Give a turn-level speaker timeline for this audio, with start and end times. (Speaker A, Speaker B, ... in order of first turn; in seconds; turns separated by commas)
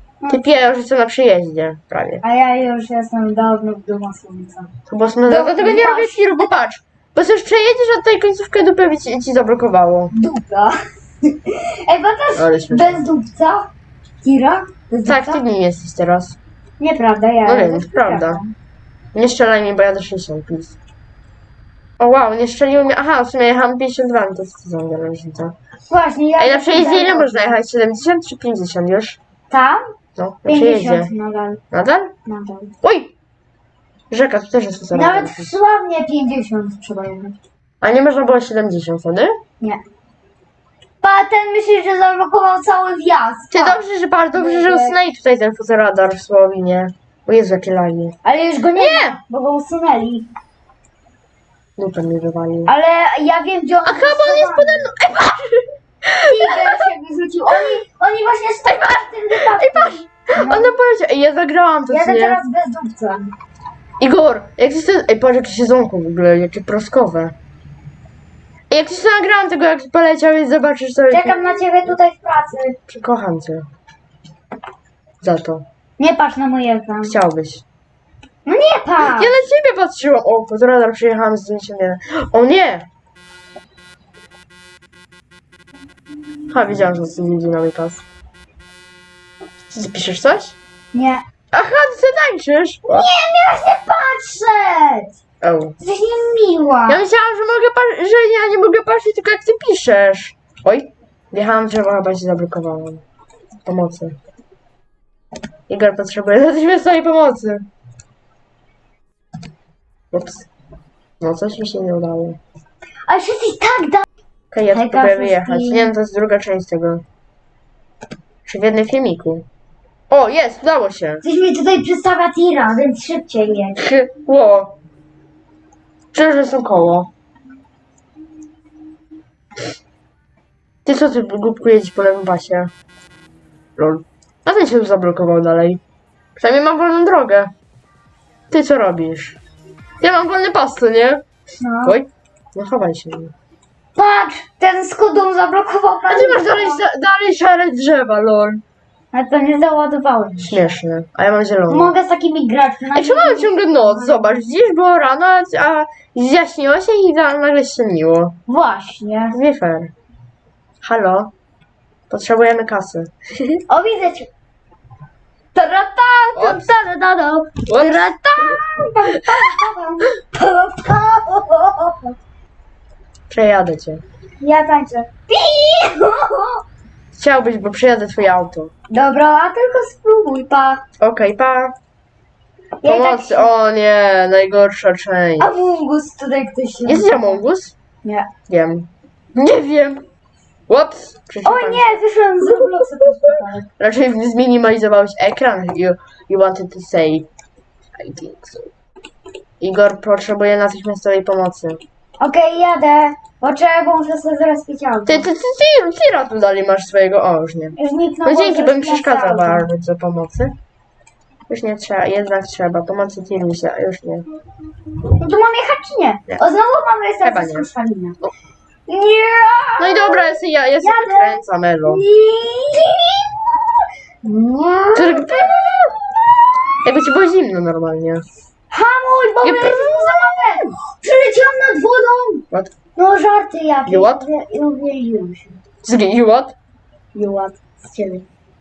Speaker A: 0.3-2.2, Speaker B: 2.2-4.7, Speaker A: 4.9-10.1, Speaker B: 5.3-6.5, Speaker B: 10.1-13.7, Speaker A: 12.4-13.1, Speaker B: 14.2-15.4, Speaker A: 15.1-16.4, Speaker B: 16.8-18.5, Speaker A: 17.4-18.4, Speaker A: 19.1-20.8, Speaker A: 22.0-25.6, Speaker B: 25.9-27.5, Speaker A: 26.4-29.2, Speaker B: 29.5-29.8, Speaker A: 30.2-31.1, Speaker B: 30.5-31.6, Speaker A: 31.7-32.1, Speaker B: 32.3-32.7, Speaker A: 32.8-33.1, Speaker A: 34.1-35.5, Speaker B: 34.9-37.4, Speaker A: 37.8-39.4, Speaker B: 41.0-43.8, Speaker A: 43.5-48.2, Speaker B: 44.4-45.0, Speaker B: 48.2-50.3, Speaker A: 48.8-49.2, Speaker A: 51.8-52.7, Speaker B: 52.7-54.9, Speaker A: 53.9-56.9, Speaker B: 56.2-60.7, Speaker A: 58.7-62.4, Speaker B: 61.9-63.3, Speaker A: 64.0-67.3, Speaker A: 68.7-71.9, Speaker B: 71.1-72.8, Speaker A: 72.9-73.7, Speaker A: 75.2-75.7, Speaker B: 76.0-77.2, Speaker A: 77.0-77.6, Speaker B: 78.5-79.3, Speaker A: 79.0-82.9, Speaker A: 86.5-88.0, Speaker A: 89.7-90.6, Speaker B: 90.9-91.2, Speaker A: 91.5-93.1, Speaker B: 92.9-95.1, Speaker A: 95.4-95.8, Speaker B: 95.8-97.0, Speaker A: 96.9-103.0, Speaker A: 103.7-104.2, Speaker A: 105.7-107.7, Speaker A: 110.1-110.5, Speaker A: 111.2-112.4, Speaker B: 113.1-114.0, Speaker A: 114.5-117.0, Speaker B: 114.7-115.9, Speaker A: 118.5-119.5, Speaker A: 120.1-121.2, Speaker B: 121.2-123.8, Speaker A: 123.8-124.8, Speaker A: 126.1-127.1, Speaker A: 130.8-132.7, Speaker A: 133.8-135.8, Speaker A: 136.4-137.5, Speaker A: 138.5-139.4, Speaker A: 140.0-141.2, Speaker B: 141.6-142.0, Speaker A: 141.8-143.3, Speaker B: 144.0-146.8, Speaker A: 146.1-148.6, Speaker B: 149.1-150.6, Speaker A: 150.4-151.9, Speaker B: 151.7-154.2, Speaker A: 152.9-158.4, Speaker B: 158.5-159.4, Speaker A: 159.3-159.9, Speaker A: 160.8-161.3, Speaker A: 162.1-163.6, Speaker B: 163.7-164.3, Speaker B: 165.6-172.2, Speaker A: 166.3-166.7, Speaker A: 167.7-168.6, Speaker A: 169.3-169.6, Speaker A: 173.3-174.0, Speaker B: 174.4-176.6, Speaker A: 177.1-178.7, Speaker B: 178.9-180.8, Speaker A: 181.0-181.7, Speaker B: 182.8-183.5, Speaker A: 182.8-185.7, Speaker B: 185.4-187.4, Speaker A: 186.9-187.7, Speaker B: 188.0-188.3, Speaker A: 188.5-190.1, Speaker A: 190.7-197.3, Speaker B: 191.4-193.7, Speaker A: 198.0-198.7, Speaker A: 199.6-201.8, Speaker B: 202.2-205.3, Speaker A: 205.1-210.6, Speaker B: 207.8-209.7, Speaker A: 211.5-214.3, Speaker B: 215.2-218.2, Speaker A: 217.2-217.7, Speaker B: 218.9-223.6, Speaker A: 219.8-222.0, Speaker B: 224.2-226.8, Speaker A: 224.9-225.8, Speaker A: 226.8-228.2, Speaker B: 228.7-232.4, Speaker A: 229.4-230.3, Speaker B: 233.0-235.6, Speaker A: 233.9-234.3, Speaker A: 235.8-236.6, Speaker B: 237.1-238.3